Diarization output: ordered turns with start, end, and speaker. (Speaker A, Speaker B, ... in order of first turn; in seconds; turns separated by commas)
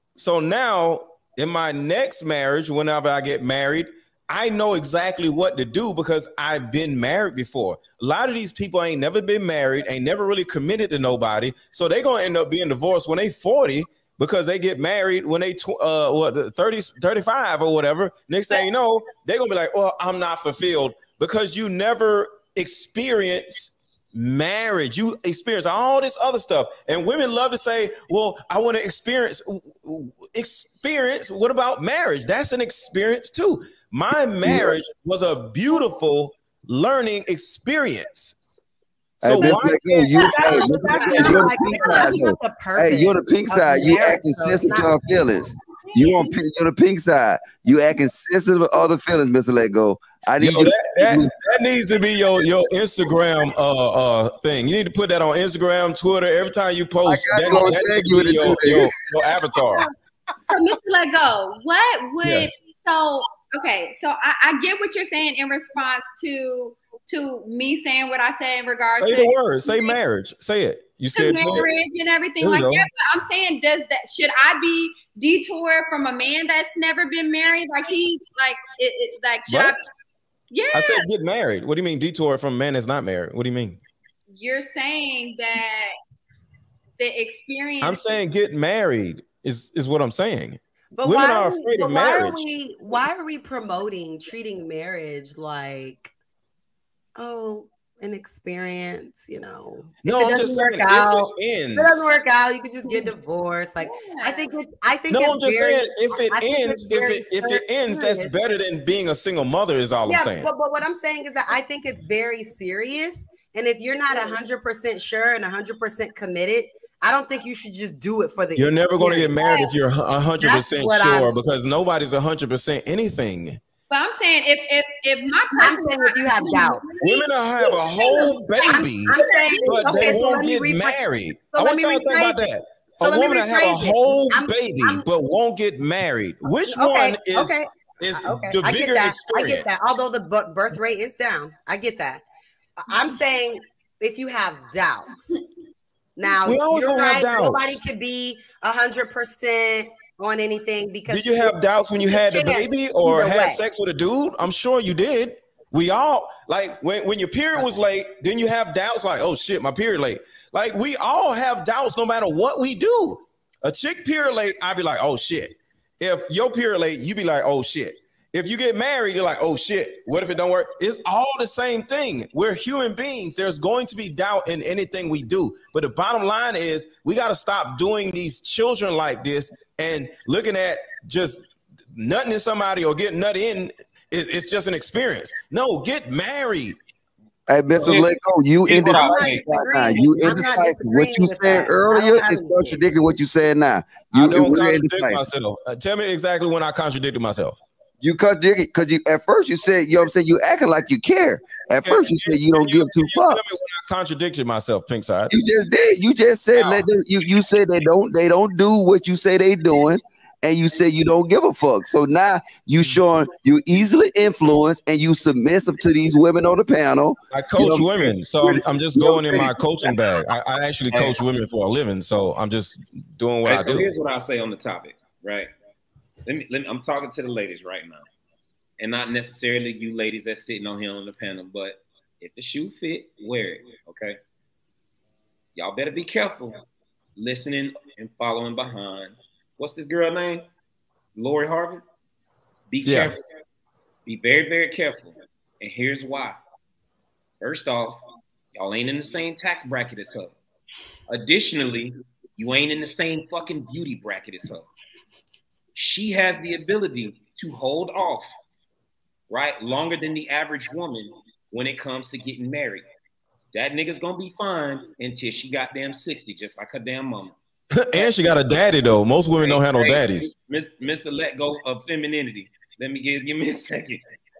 Speaker A: 0.1-38.4, Speaker B: 34.4-34.7, Speaker B: 39.2-51.3, Speaker A: 39.2-41.6, Speaker C: 39.4-42.3, Speaker D: 40.3-44.9, Speaker A: 50.4-59.9, Speaker B: 57.0-58.9, Speaker C: 60.5-69.9, Speaker A: 62.2-62.6, Speaker A: 69.0-71.7, Speaker C: 71.1-79.8, Speaker A: 72.4-72.8, Speaker A: 79.5-79.8, Speaker C: 80.5-81.0, Speaker A: 80.7-83.8, Speaker C: 84.3-85.9, Speaker C: 87.0-88.2, Speaker A: 87.8-92.5, Speaker D: 90.9-96.1, Speaker D: 97.2-108.4, Speaker A: 100.0-102.1, Speaker C: 103.8-104.4, Speaker A: 105.1-110.5, Speaker D: 110.0-119.4, Speaker A: 118.5-123.6, Speaker C: 119.4-119.8, Speaker D: 120.4-121.3, Speaker C: 123.9-130.0, Speaker D: 125.5-126.9, Speaker A: 127.0-139.8, Speaker D: 128.4-132.4, Speaker D: 132.9-135.0, Speaker D: 136.6-142.2, Speaker D: 142.8-145.3, Speaker D: 146.2-153.6, Speaker A: 146.4-147.8, Speaker A: 151.1-186.8, Speaker B: 187.5-195.3, Speaker E: 187.8-188.1, Speaker E: 188.6-189.4, Speaker D: 188.8-192.8, Speaker A: 194.1-197.6, Speaker B: 198.0-203.6, Speaker A: 201.8-205.3, Speaker B: 205.3-219.9, Speaker A: 206.5-206.8, Speaker A: 217.3-223.9, Speaker E: 220.9-221.2, Speaker E: 223.4-225.5, Speaker E: 226.2-228.1, Speaker E: 228.8-234.2, Speaker E: 235.6-236.6, Speaker E: 237.2-240.5, Speaker E: 241.1-241.8, Speaker E: 242.7-243.2, Speaker A: 242.8-243.1, Speaker E: 244.1-246.4, Speaker E: 247.4-248.0, Speaker E: 248.5-250.3, Speaker E: 251.1-254.7, Speaker E: 255.7-258.2, Speaker E: 259.3-262.9, Speaker E: 263.5-267.4, Speaker A: 267.7-270.3, Speaker E: 269.4-274.0